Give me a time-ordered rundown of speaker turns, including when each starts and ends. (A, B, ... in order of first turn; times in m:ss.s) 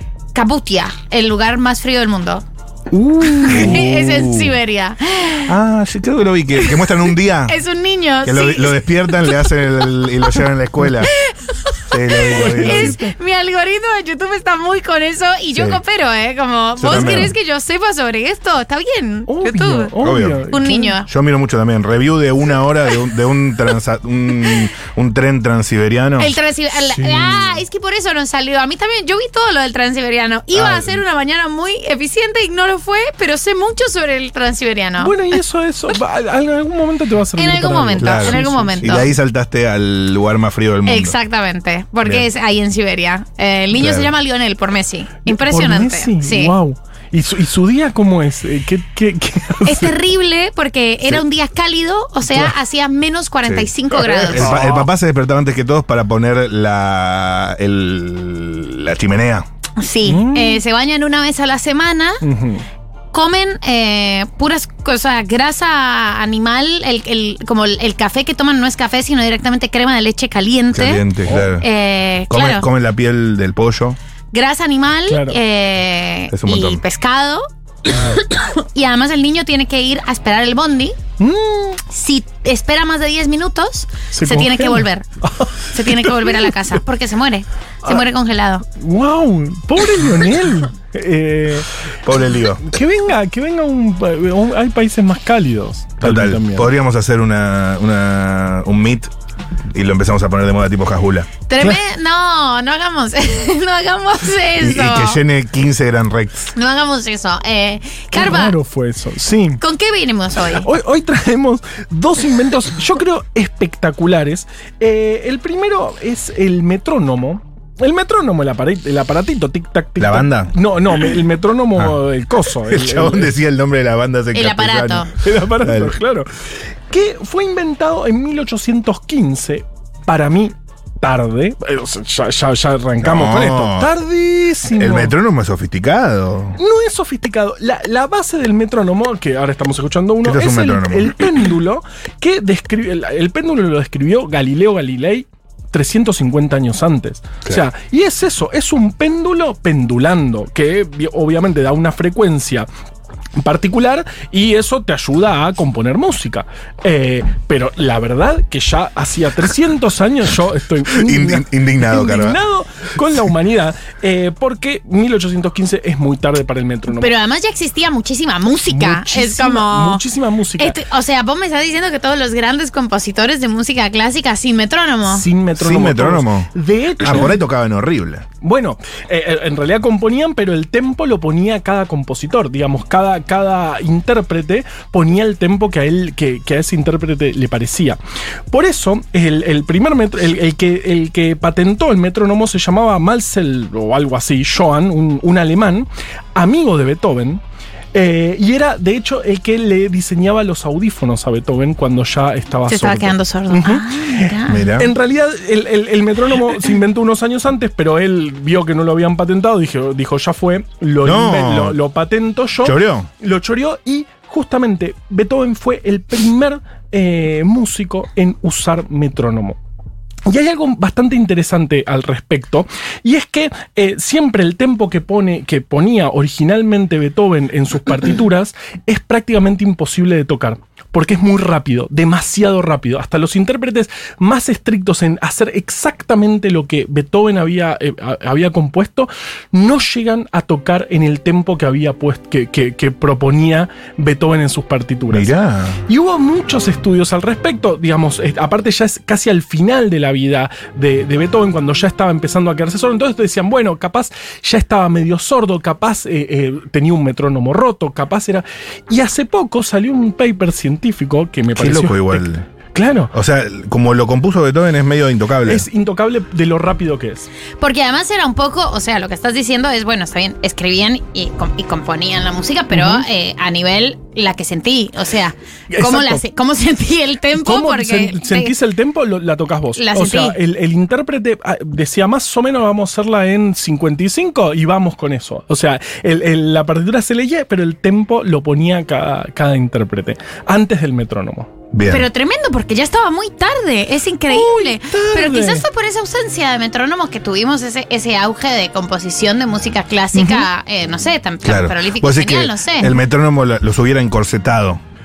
0:00.3-0:02.4 A
0:02.9-0:03.8 B
0:03.3-0:05.6 A
0:03.5-0:04.6 C
0:05.5-0:07.6 C
0:06.5-0:10.5 A
0:08.2-0:11.1 C
0:11.0-0:21.1 A
0:11.9-0:13.0 C
0:12.3-0:13.1 B
0:15.5-0:15.8 C
0:16.8-0:17.3 C
0:19.3-0:21.0 B
0:20.0-0:20.4 C
0:21.1-0:26.3 C
0:22.9-0:23.1 A
0:26.2-0:35.4 A
0:26.8-0:27.6 B
0:30.5-0:31.0 C
0:35.0-0:39.1 B
0:37.3-0:39.1 A
0:38.0-0:41.2 C
0:40.8-0:46.5 A
0:43.7-0:44.1 C
0:45.2-0:50.0 B
0:49.6-0:54.6 A
0:52.2-0:52.5 B
0:53.4-0:59.4 C
0:54.2-0:54.8 B
0:59.8-1:02.2 A
1:00.0-1:00.6 B
1:02.2-1:02.6 B
1:03.1-1:12.7 A
1:10.7-1:11.7 C
1:11.2-1:11.5 B
1:12.3-1:14.0 C
1:14.3-1:21.0 A
1:15.1-1:15.4 B
1:16.3-1:16.8 C
1:21.2-1:21.8 B
1:21.8-1:25.0 A
1:24.1-1:26.7 B
1:25.7-1:28.6 A
1:28.7-1:31.7 B
1:32.0-1:32.6 C
1:32.6-1:36.7 B
1:36.0-1:39.1 C
1:39.7-1:41.3 C
1:41.5-1:45.2 A
1:44.6-1:46.5 C
1:46.5-1:48.6 A
1:48.1-1:49.6 B
1:49.6-1:50.7 A
1:50.4-2:03.4 B
2:00.0-2:00.5 C
2:01.8-2:06.0 C
2:04.3-2:05.1 A
2:05.1-2:15.1 B
2:13.0-2:13.9 C
2:14.7-2:16.6 C
2:16.5-2:32.7 B
2:20.2-2:21.3 C
2:33.4-2:47.1 B
2:40.9-2:42.4 C
2:46.9-2:50.0 A
2:48.7-2:50.8 B
2:50.6-2:55.3 A
2:55.1-2:57.4 B
2:55.5-2:58.2 C
2:58.4-3:08.0 B
3:08.5-3:17.4 B
3:17.9-3:39.6 B
3:22.7-3:24.6 A
3:24.5-3:24.9 C
3:31.0-3:31.8 C
3:32.6-3:33.1 C
3:40.3-4:05.4 B
4:05.1-4:05.8 C
4:05.9-4:23.1 B
4:21.5-4:22.4 C
4:23.1-4:25.6 C
4:25.4-4:27.3 B
4:27.6-4:38.5 A
4:32.7-4:33.0 B
4:35.7-4:36.2 B
4:37.3-4:51.5 B
4:39.7-4:40.4 A
4:51.7-4:52.1 C
4:51.8-5:03.0 A
4:54.3-4:55.6 B
5:00.1-5:00.5 B
5:01.4-5:04.8 C